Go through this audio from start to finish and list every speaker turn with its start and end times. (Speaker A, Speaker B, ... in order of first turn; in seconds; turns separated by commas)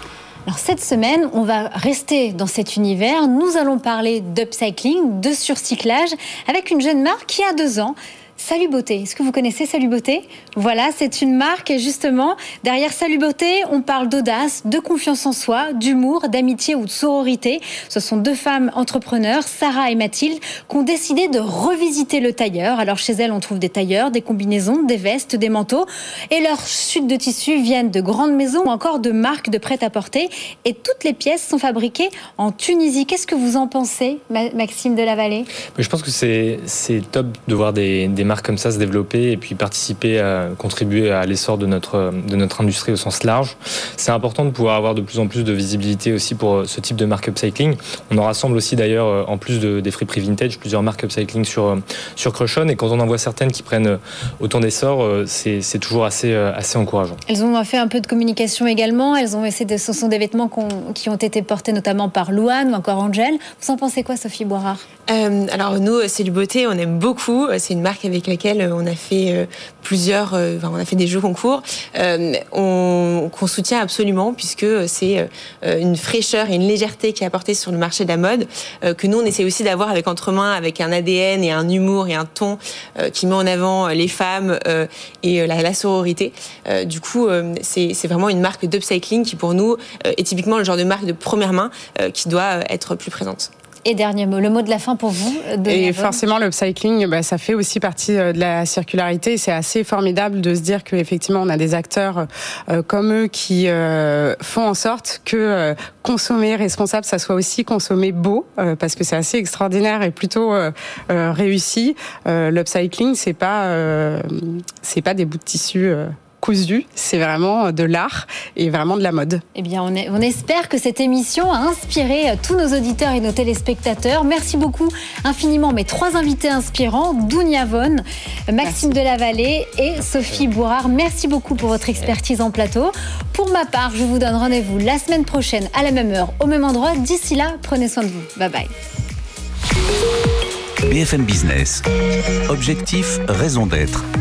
Speaker A: 0.5-35.5, Speaker B: 35.8-57.2, Speaker A: 57.3-64.8, Speaker C: 65.1-93.5, Speaker A: 93.8-96.2, Speaker D: 95.7-119.4, Speaker A: 119.5-138.7, Speaker D: 128.6-128.9, Speaker E: 140.8-141.8, Speaker E: 142.5-144.1